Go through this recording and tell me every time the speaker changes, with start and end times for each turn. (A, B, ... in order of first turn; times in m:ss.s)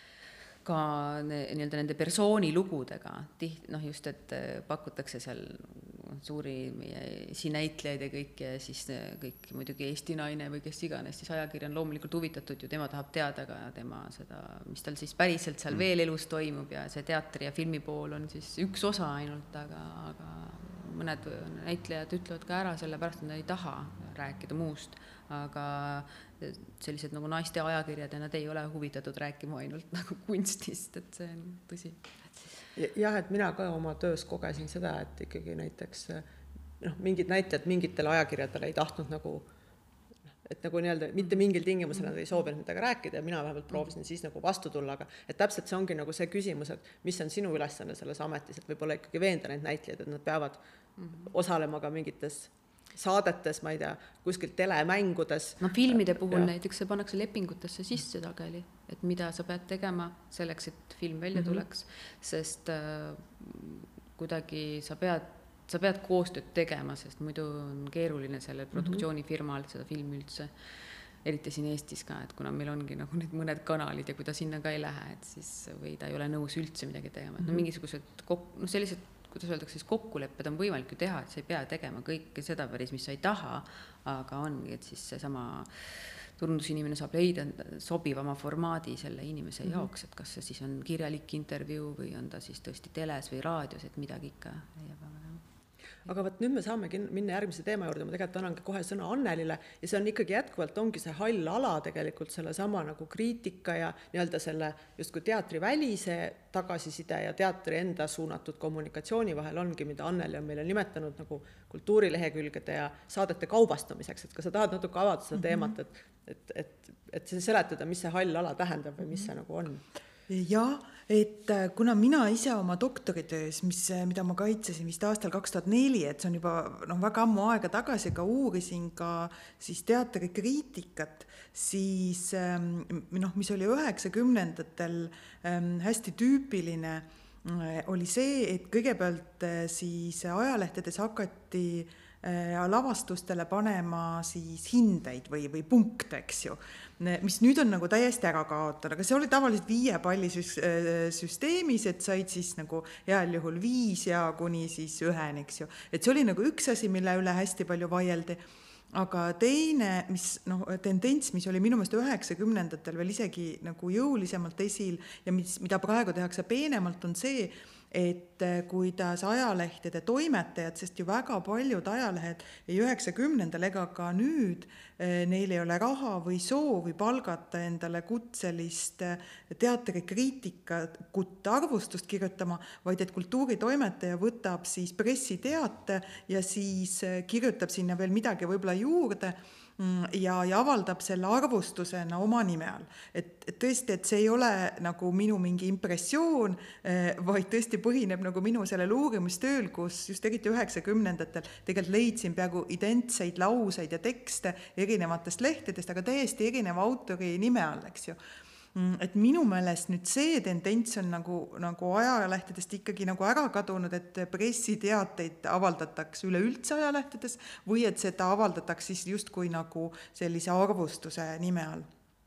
0:00.6-0:32.5 A
0:32.8-0:36.2 B
0:36.8-0:39.5 B
0:40.4-0:50.6 B
0:51.0-0:51.3 A
0:51.2-0:56.5 B
0:55.6-1:10.5 A
1:01.3-1:01.6 B
1:08.7-1:09.0 B
1:11.2-1:35.4 A
1:17.4-1:17.6 B
1:36.1-1:59.8 B
1:55.4-1:55.7 C
2:00.3-2:38.4 C
2:38.9-3:28.2 C
3:28.8-3:41.9 C